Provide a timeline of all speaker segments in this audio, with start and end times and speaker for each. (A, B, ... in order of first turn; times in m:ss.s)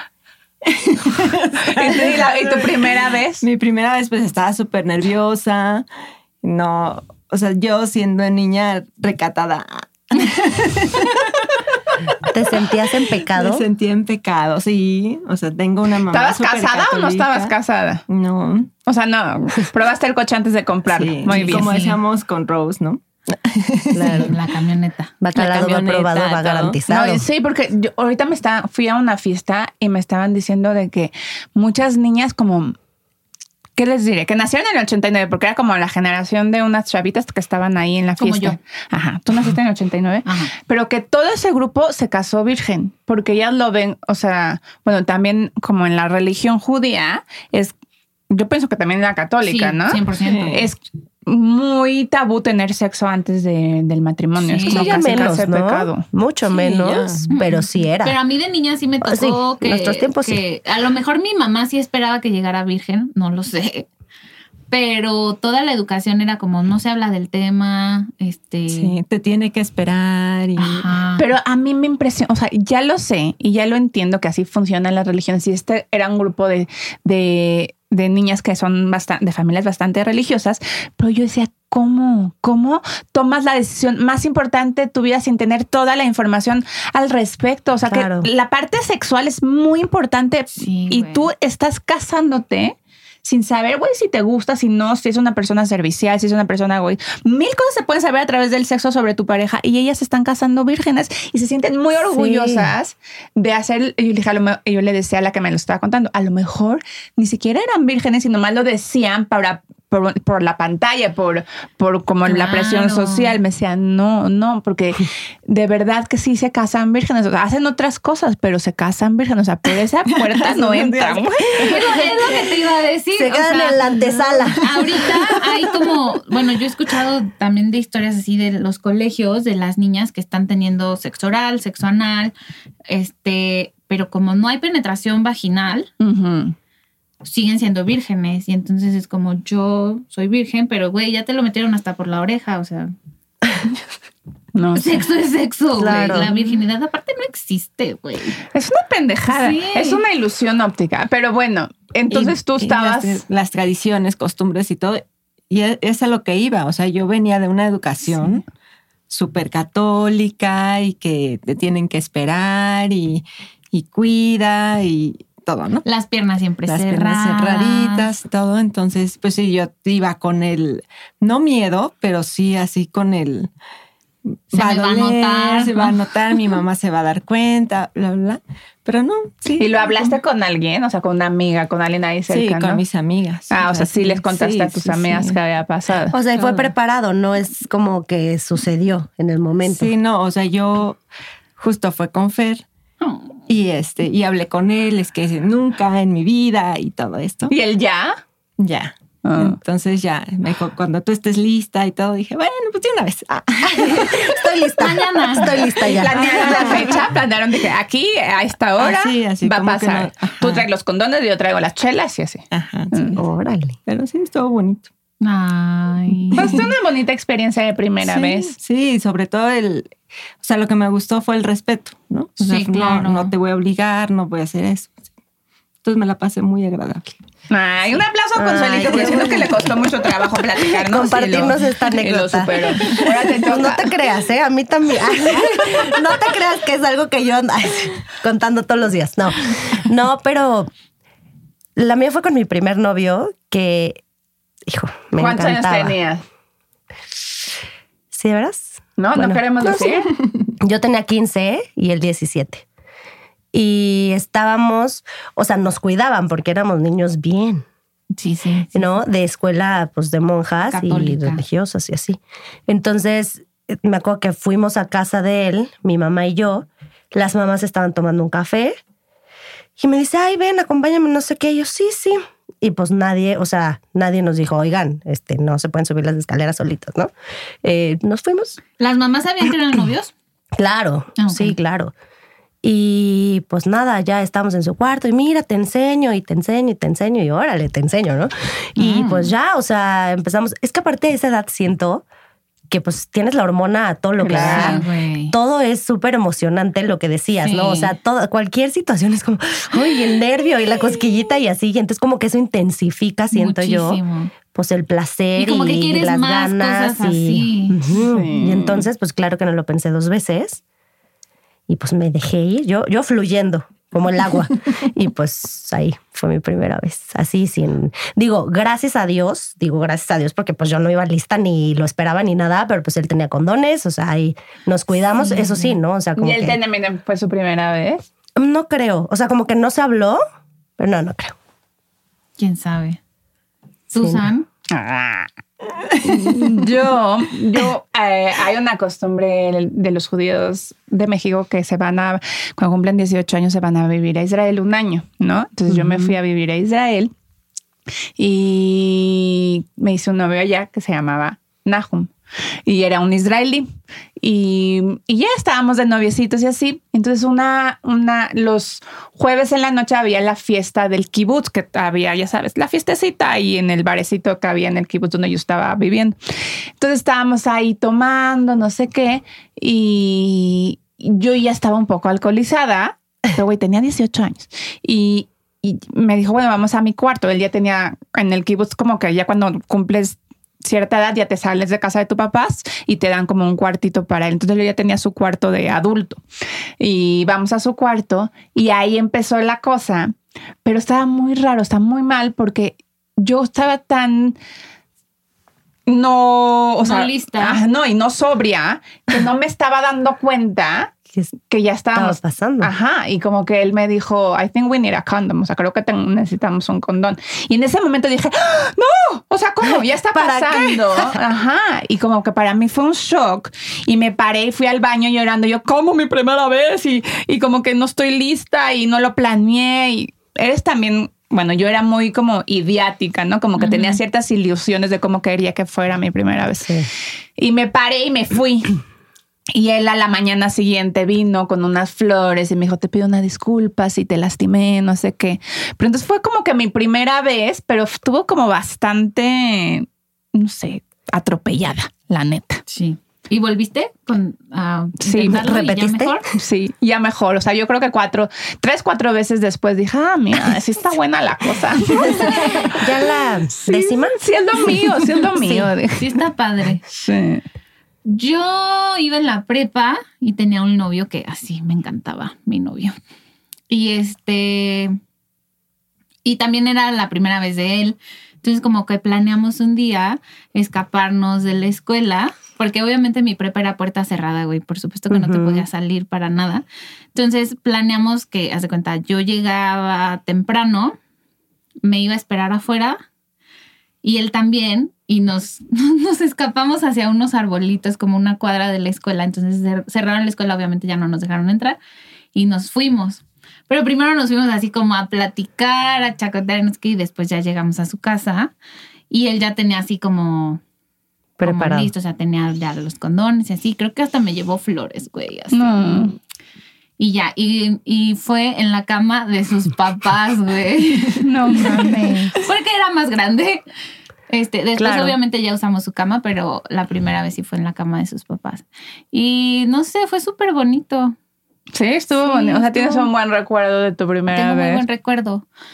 0:00.6-0:05.8 A
0:01.7-0:03.4 B
0:06.4-0:11.6 A
0:12.3-0:13.6 C
0:13.2-0:17.5 A
0:16.1-0:18.0 B
0:18.1-0:18.7 A
0:18.8-0:21.7 B
0:20.9-0:24.3 A
0:21.3-0:22.0 D
0:23.9-0:24.3 C
0:24.2-0:25.1 D
0:25.2-0:27.2 C
0:25.3-0:26.8 A
0:26.9-0:32.7 B
0:33.8-0:47.7 B
0:38.2-0:38.6 D
0:40.2-0:40.5 D
0:48.3-0:56.0 B
0:49.4-0:50.6 D
0:50.2-0:50.7 A
0:54.4-0:55.3 D
0:54.7-0:58.2 C
0:56.5-0:57.3 A
0:57.3-1:03.9 D
0:59.0-1:00.4 C
1:04.7-1:09.0 D
1:08.7-1:10.9 A
1:10.6-1:11.2 D
1:11.2-2:01.8 B
1:27.8-1:28.3 C
1:30.6-1:31.3 D
1:42.0-1:42.7 C
1:52.2-1:53.4 D
2:00.1-2:02.5 A
2:01.6-2:04.0 D
2:03.1-2:04.7 C
2:03.9-2:05.9 A
2:04.6-2:12.3 D
2:12.9-2:15.9 D
2:16.0-2:16.6 B
2:17.2-2:22.9 D
2:24.5-2:25.0 B
2:24.7-2:28.4 D
2:25.8-2:26.3 C
2:28.5-2:33.2 B
2:29.3-2:30.0 D
2:32.1-2:38.4 A
2:39.1-2:45.8 A
2:45.8-2:48.1 D
2:46.7-2:53.5 A
2:54.5-3:00.2 A
2:54.5-2:55.9 D
2:59.6-3:02.8 B
3:02.3-3:05.4 A
3:03.5-3:06.2 B
3:06.1-3:09.9 C
3:06.3-3:06.7 A
3:09.6-3:11.0 A
3:11.6-3:12.6 A
3:13.5-3:17.5 A
3:17.5-3:18.2 B
3:18.6-3:24.5 A
3:19.2-3:19.6 B
3:23.7-3:26.8 C
3:24.8-3:25.6 D
3:25.8-3:27.0 A
3:25.9-3:33.2 B
3:28.8-3:30.7 A
3:32.5-3:33.2 A
3:33.2-3:33.8 C
3:33.8-3:34.9 A
3:35.2-3:36.6 D
3:36.3-3:36.7 A
3:36.3-3:38.5 B
3:38.0-3:44.9 A
3:42.4-3:43.3 D
3:45.8-3:47.2 A
3:47.5-3:53.9 B
3:48.4-3:49.7 C
3:48.8-3:49.5 A
3:50.6-4:00.7 C
4:01.8-4:04.0 C
4:04.7-4:05.9 C
4:05.2-4:06.2 B
4:08.1-4:10.1 C
4:09.0-4:10.1 B
4:10.6-4:12.6 C
4:13.5-4:17.6 C
4:18.2-4:18.9 D
4:18.7-4:28.8 C
4:20.7-4:21.4 D
4:29.8-4:37.1 C
4:37.6-4:38.6 C
4:38.8-4:40.1 D
4:40.6-4:41.9 C
4:41.2-4:41.6 D
4:42.6-4:52.0 C
4:48.8-4:49.3 D
4:52.7-5:04.0 C
4:54.2-4:54.8 B
4:54.3-4:55.3 D
4:57.4-4:57.9 D
5:03.3-5:04.3 D
5:04.5-5:10.6 C
5:05.4-5:07.9 D
5:07.9-5:08.8 B
5:11.7-5:26.6 C
5:25.2-5:25.8 D
5:26.2-5:28.0 B
5:28.4-5:30.2 C
5:30.8-5:31.3 C
5:32.4-5:33.0 D
5:33.9-5:34.4 D
5:34.0-5:34.2 C
5:34.7-5:35.3 B
5:35.9-5:47.1 B
5:48.2-5:52.1 B
5:52.6-5:53.7 B
5:54.2-6:06.2 B
6:06.8-6:26.2 B
6:26.8-6:34.4 B
6:35.9-6:40.9 B
6:36.8-6:37.6 D
6:41.5-7:06.8 B
6:41.9-6:42.7 C
6:50.1-6:51.1 C
7:03.6-7:04.0 D
7:06.6-7:06.9 C
7:07.4-7:08.8 B
7:09.5-7:22.6 B
7:22.7-7:26.2 D
7:25.0-7:25.4 B
7:25.3-7:26.2 C
7:26.3-7:32.8 B
7:32.2-7:34.2 C
7:33.6-7:36.1 B
7:35.3-7:35.7 C
7:36.0-7:36.8 D
7:36.9-7:37.4 B
7:38.0-7:43.0 D
7:43.7-7:45.0 D
7:46.2-8:01.0 D
7:55.1-7:55.6 C
8:01.8-8:03.0 D
8:04.0-8:11.8 D
8:12.3-8:18.5 D
8:19.1-8:20.6 D
8:21.4-8:21.9 C
8:21.4-8:26.1 D
8:25.5-8:26.1 B
8:27.0-8:33.6 D
8:31.2-8:32.4 B
8:34.3-8:41.1 D
8:34.8-8:35.1 C
8:41.7-8:44.8 B
8:42.1-8:43.1 D
8:44.3-8:45.4 D